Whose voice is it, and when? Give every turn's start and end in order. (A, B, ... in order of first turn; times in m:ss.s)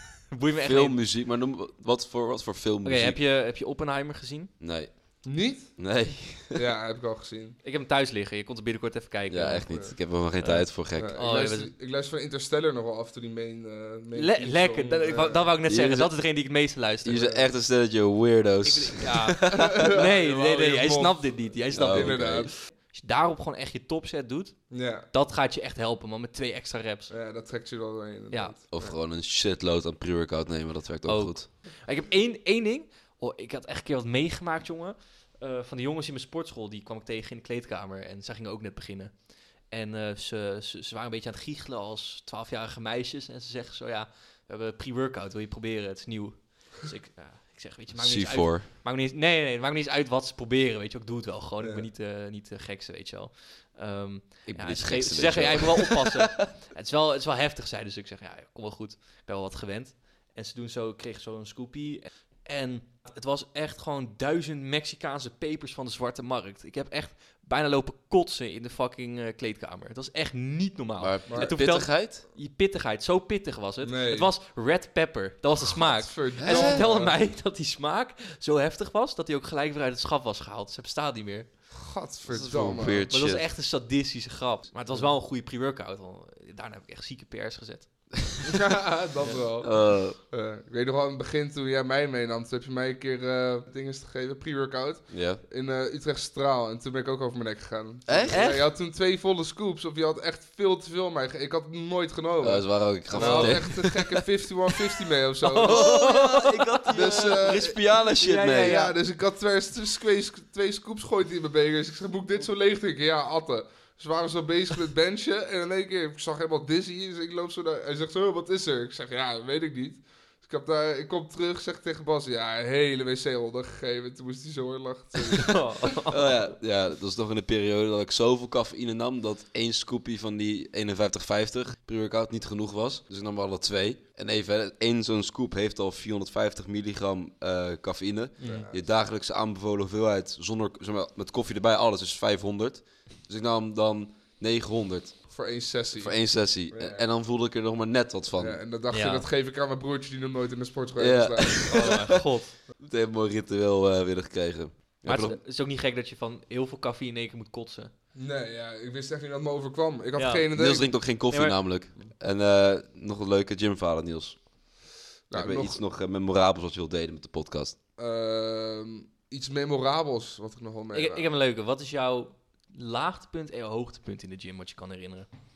0:00.3-0:01.0 A
0:00.6-0:03.2 B
0:02.8-0:04.5 A
0:04.6-0:05.1 B
0:05.2-0:05.9 C
0:05.8-0:06.6 B
0:06.5-0:07.6 C
0:07.6-0:11.7 A
0:09.3-0:11.1 B
0:09.7-0:10.0 C
0:10.9-0:15.5 C
0:14.2-0:17.3 A
0:15.6-0:16.1 B
0:17.0-0:19.9 B
0:17.1-0:17.5 C
0:18.6-0:27.1 A
0:19.5-0:22.6 C
0:21.7-0:22.5 B
0:24.7-0:25.1 C
0:27.1-0:29.0 C
0:28.3-0:28.6 A
0:28.7-0:31.5 B
0:31.1-1:21.5 A
0:47.9-0:48.7 B
0:51.6-0:51.9 C
0:54.5-0:56.2 B
1:11.0-1:12.2 B
1:11.3-1:11.6 C
1:13.8-1:14.3 C
1:15.8-1:17.2 C
1:16.4-1:16.8 B
1:21.7-1:23.1 C
1:22.3-1:23.5 B
1:23.1-1:28.2 A
1:24.9-1:25.2 C
1:28.4-1:45.8 C
1:29.2-1:29.5 A
1:29.6-1:30.2 B
1:35.1-1:35.4 B
1:38.1-1:38.4 B
1:38.3-1:38.7 A
1:42.4-1:43.9 B
1:43.1-1:44.0 A
1:45.4-1:47.6 A
1:45.6-1:48.8 B
1:46.9-1:47.8 C
1:48.2-1:49.0 A
1:48.6-2:05.9 C
2:05.3-2:06.5 A
2:06.1-2:25.3 B
2:18.4-2:18.7 A
2:18.4-2:18.8 C
2:25.3-2:27.0 C
2:26.0-2:28.6 B
2:28.4-2:32.1 C
2:28.9-2:29.3 A
2:31.0-2:32.2 B
2:31.7-2:32.6 A
2:32.8-2:35.4 B
2:35.0-2:37.9 A
2:38.2-2:41.0 C
2:40.1-2:40.7 A
2:40.5-2:44.5 B
2:41.3-2:41.7 A
2:45.3-2:45.8 C
2:45.3-2:47.8 B
2:48.0-2:51.3 C
2:50.9-2:55.3 A